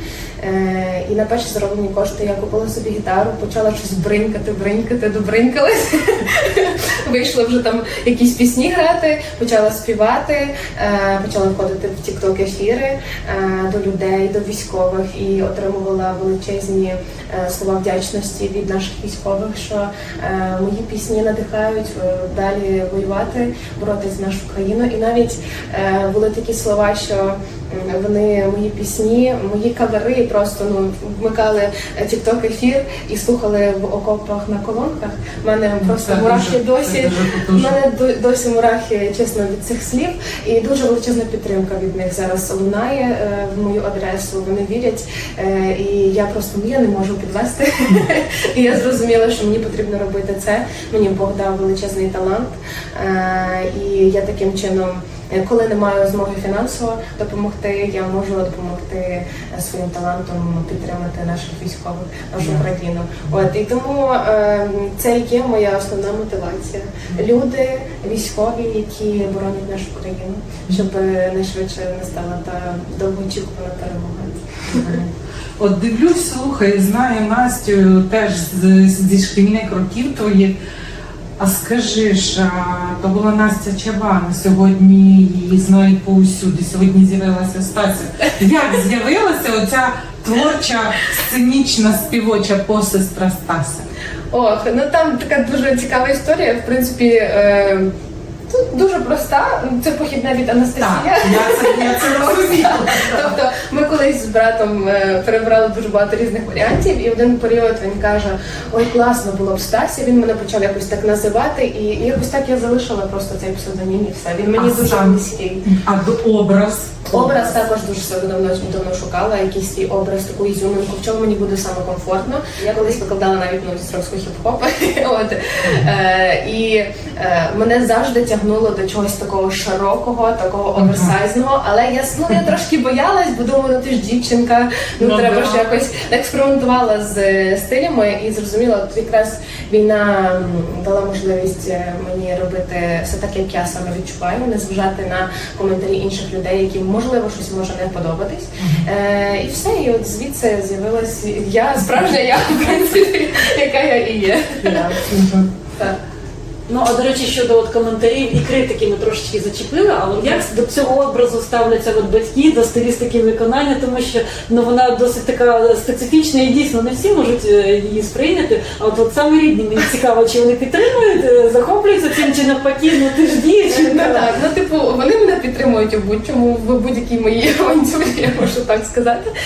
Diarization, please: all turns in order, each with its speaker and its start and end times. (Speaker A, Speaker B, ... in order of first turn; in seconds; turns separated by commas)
Speaker A: 0.4-75.0, Speaker B: 35.8-37.8, Speaker B: 74.7-75.0, Speaker B: 75.6-80.5, Speaker B: 81.4-93.8, Speaker A: 94.3-97.9, Speaker A: 98.5-115.6, Speaker B: 100.8-103.3, Speaker B: 114.5-117.5, Speaker A: 117.1-155.0, Speaker C: 122.6-123.0, Speaker B: 130.8-131.1, Speaker B: 135.0-135.7, Speaker B: 148.6-148.8, Speaker B: 154.6-155.5, Speaker C: 156.7-174.2, Speaker A: 173.7-179.3